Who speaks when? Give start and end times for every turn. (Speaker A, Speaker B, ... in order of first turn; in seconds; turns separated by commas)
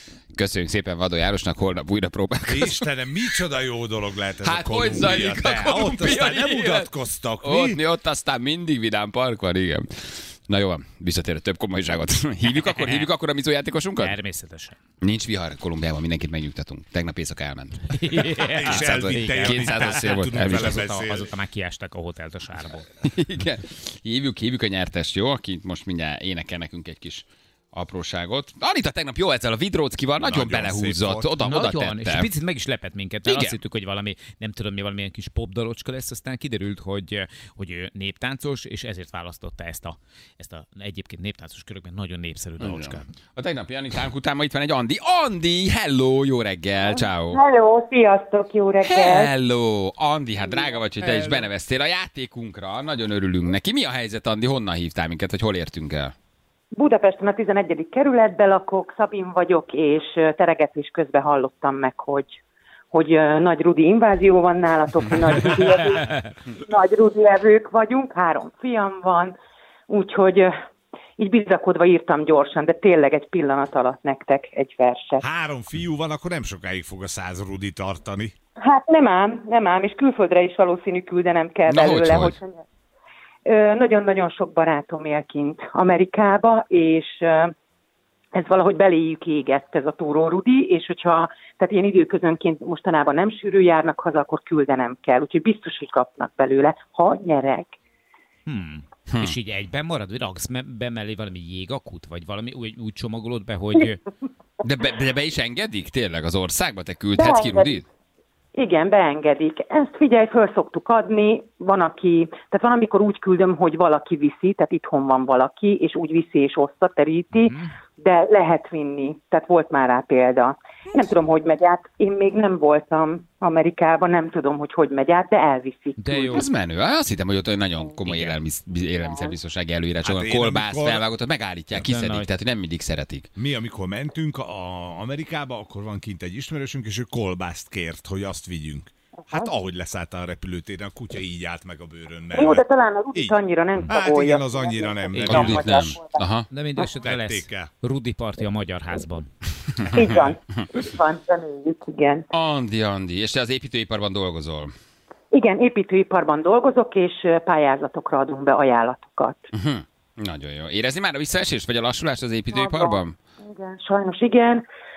Speaker A: 0.3-2.9, Speaker B: 2.5-7.8, Speaker A: 4.4-6.9, Speaker C: 5.0-5.8, Speaker A: 7.4-14.2, Speaker C: 12.8-13.1, Speaker C: 14.0-14.8, Speaker A: 15.0-18.0, Speaker C: 17.9-22.9, Speaker B: 18.4-21.3, Speaker A: 18.6-20.8, Speaker A: 23.0-32.3, Speaker B: 30.2-31.3, Speaker C: 31.4-43.1, Speaker A: 33.3-33.6, Speaker A: 42.6-47.4, Speaker D: 46.9-49.3, Speaker A: 48.8-56.1, Speaker C: 51.0-51.5, Speaker D: 56.7-62.4, Speaker D: 62.9-69.3, Speaker C: 65.6-66.2, Speaker D: 69.9-70.5, Speaker D: 71.2-75.2, Speaker B: 75.2-78.3, Speaker D: 78.6-82.6, Speaker A: 81.7-82.4, Speaker D: 83.5-87.5, Speaker D: 88.3-97.8, Speaker C: 98.5-104.0, Speaker A: 99.1-99.4, Speaker A: 104.6-107.8, Speaker D: 107.1-107.8, Speaker D: 108.5-126.4, Speaker C: 117.3-117.7, Speaker C: 126.0-126.5, Speaker A: 126.3-133.3, Speaker C: 128.0-128.3, Speaker B: 130.0-131.1, Speaker C: 131.8-132.3, Speaker B: 133.4-145.8, Speaker D: 142.3-146.2, Speaker C: 145.1-145.6, Speaker A: 145.2-146.5, Speaker C: 146.5-149.3, Speaker B: 147.0-147.7, Speaker A: 149.8-150.2, Speaker D: 149.9-152.2, Speaker A: 152.3-154.7, Speaker D: 155.3-159.5, Speaker A: 159.5-163.2, Speaker D: 162.5-164.7